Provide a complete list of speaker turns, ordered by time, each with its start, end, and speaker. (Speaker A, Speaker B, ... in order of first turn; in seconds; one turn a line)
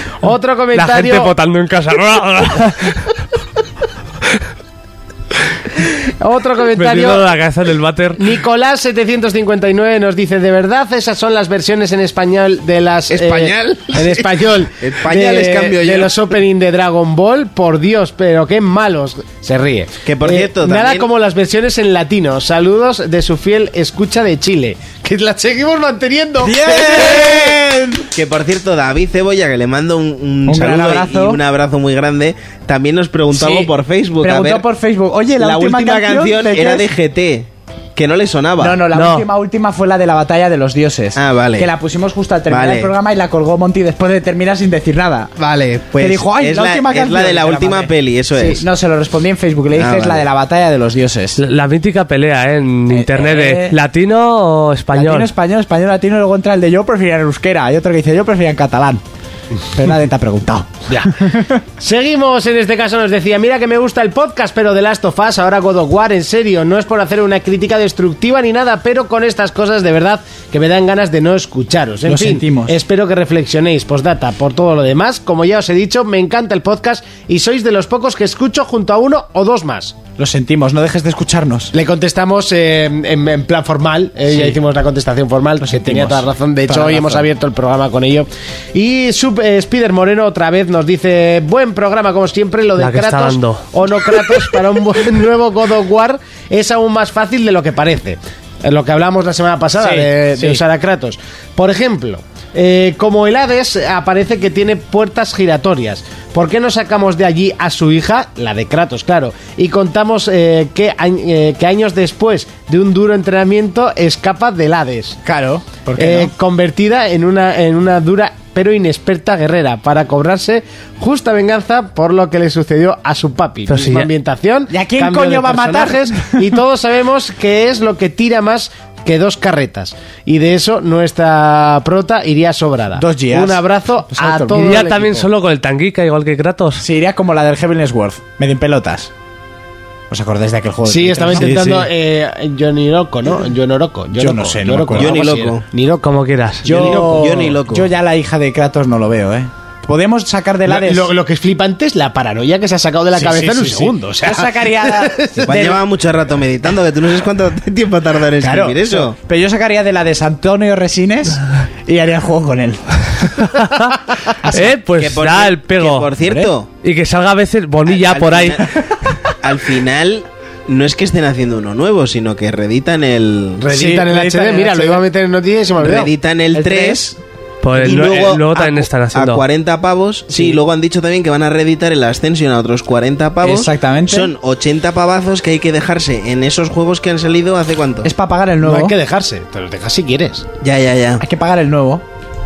Speaker A: 0.2-1.3
Speaker B: 0.7-3.1
Speaker A: 6.2-7.2
Speaker B: 6.8-8.2
Speaker A: 8.2-26.9
Speaker C: 13.1-16.1
Speaker C: 20.1-21.1
Speaker D: 26.4-28.1
Speaker C: 26.6-34.6
Speaker D: 30.5-31.4
Speaker D: 33.3-36.9
Speaker C: 35.4-38.8
Speaker D: 38.6-45.3
Speaker B: 38.9-39.3
Speaker C: 41.2-41.7
Speaker C: 42.5-42.9
Speaker C: 45.4-48.7
Speaker D: 46.0-51.4
Speaker C: 49.8-50.3
Speaker B: 51.4-55.3
Speaker D: 52.9-53.8
Speaker D: 54.9-59.0
Speaker D: 59.7-61.6
Speaker A: 60.9-61.1
Speaker A: 61.8-80.0
Speaker D: 72.1-72.8
Speaker D: 80.2-81.7
Speaker A: 81.7-115.2
Speaker D: 84.3-84.6
Speaker D: 85.6-87.3
Speaker B: 92.8-93.7
Speaker D: 99.8-100.6
Speaker D: 115.2-116.3
Speaker A: 116.0-135.3
Speaker B: 123.7-124.1
Speaker D: 124.7-126.6
Speaker D: 133.0-134.8
Speaker B: 134.6-136.8
Speaker D: 136.8-139.1
Speaker D: 140.1-141.9
Speaker A: 140.8-146.1
Speaker D: 144.2-145.2
Speaker C: 144.9-145.7
Speaker B: 146.0-146.7
Speaker A: 146.6-147.6
Speaker D: 146.6-151.1
Speaker C: 146.7-147.9
Speaker A: 150.7-155.7
Speaker D: 153.2-155.8
Speaker C: 155.4-159.2
Speaker D: 158.4-163.4
Speaker B: 163.4-164.0
Speaker D: 164.4-164.7
Speaker B: 164.5-166.1
Speaker C: 165.0-166.7
Speaker D: 166.2-166.5
Speaker B: 166.8-168.6
Speaker C: 167.9-173.7
Speaker A: 173.6-176.1
Speaker D: 173.7-175.0
Speaker C: 175.8-177.2
Speaker D: 176.5-177.1
Speaker B: 177.6-179.4
Speaker C: 177.8-188.1
Speaker D: 183.4-184.3
Speaker D: 188.0-189.0
Speaker A: 188.6-190.5
Speaker C: 190.6-191.2
Speaker D: 191.2-192.0